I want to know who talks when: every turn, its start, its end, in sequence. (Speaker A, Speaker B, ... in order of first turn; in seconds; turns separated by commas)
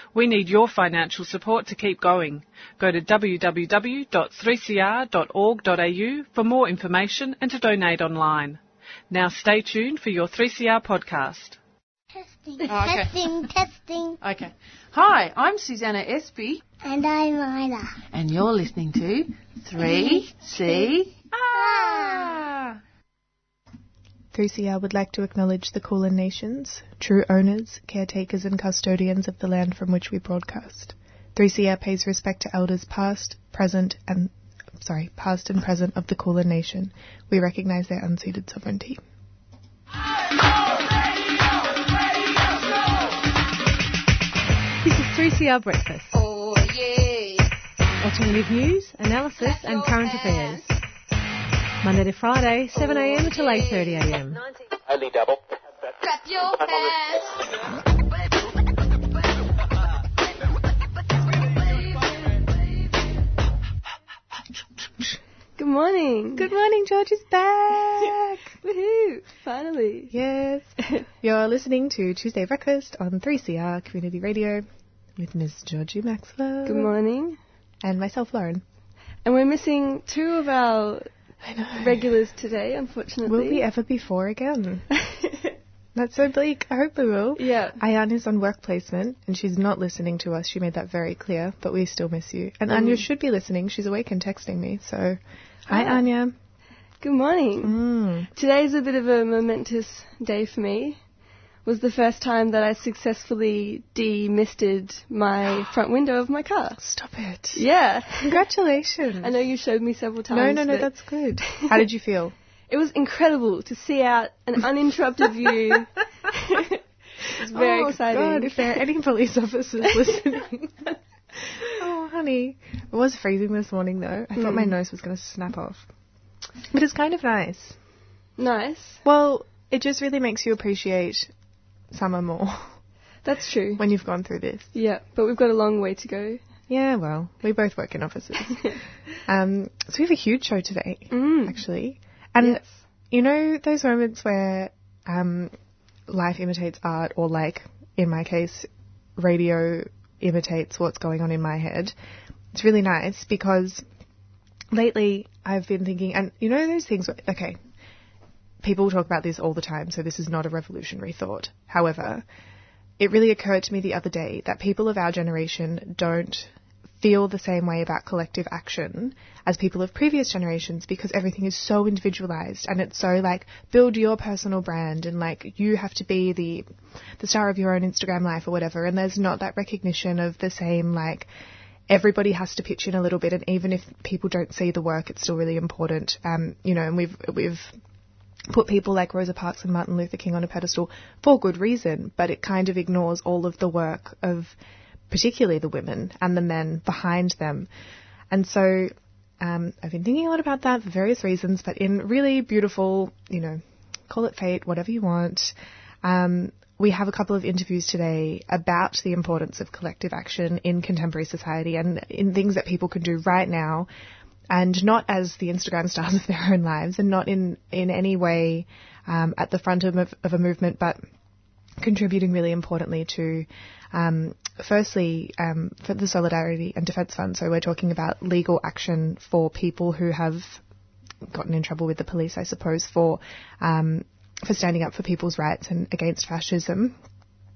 Speaker A: 0.1-11.6, Speaker B: 12.2-14.2, Speaker C: 12.7-13.3, Speaker C: 14.2-16.6, Speaker B: 16.8-18.0, Speaker C: 18.1-22.7, Speaker B: 19.8-20.9, Speaker B: 21.5-22.3, Speaker D: 24.3-39.0, Speaker E: 44.9-46.1, Speaker F: 46.1-47.5, Speaker E: 48.0-50.6, Speaker F: 49.4-50.8, Speaker E: 51.9-54.4, Speaker F: 52.8-54.0, Speaker F: 56.0-57.4, Speaker F: 61.6-62.1, Speaker G: 65.6-66.5, Speaker D: 66.4-68.5, Speaker G: 68.6-70.1, Speaker D: 70.1-76.9, Speaker G: 76.7-77.4, Speaker D: 77.8-78.6, Speaker G: 79.2-81.1, Speaker D: 81.4-82.0, Speaker G: 81.8-83.7, Speaker D: 83.3-84.9, Speaker G: 85.1-85.5, Speaker D: 86.0-96.4, Speaker G: 87.4-87.8, Speaker G: 92.7-93.0, Speaker G: 95.7-96.0, Speaker G: 97.0-97.7, Speaker D: 97.6-98.3, Speaker G: 98.3-101.0, Speaker G: 101.7-106.8, Speaker D: 106.8-107.6, Speaker G: 107.5-108.4, Speaker D: 108.3-109.3, Speaker G: 109.2-110.9, Speaker D: 110.3-112.3, Speaker G: 111.5-111.8, Speaker G: 112.7-116.8, Speaker G: 117.3-118.8, Speaker D: 117.5-120.9, Speaker D: 121.4-125.9, Speaker G: 124.4-124.7, Speaker D: 126.7-127.8, Speaker G: 128.4-129.0, Speaker D: 129.1-131.3, Speaker D: 131.9-132.8, Speaker G: 133.2-133.8, Speaker D: 133.8-134.7, Speaker G: 134.7-136.4, Speaker D: 136.7-145.5, Speaker G: 141.1-141.6, Speaker G: 142.4-142.8, Speaker D: 146.1-151.9, Speaker D: 152.5-153.8, Speaker D: 154.7-157.6, Speaker D: 158.6-162.2, Speaker D: 163.0-176.7, Speaker D: 177.2-181.3, Speaker D: 181.9-187.8, Speaker D: 188.5-194.6, Speaker D: 195.1-197.7, Speaker D: 198.3-213.9, Speaker D: 214.5-221.0, Speaker D: 221.8-230.6, Speaker D: 231.3-237.0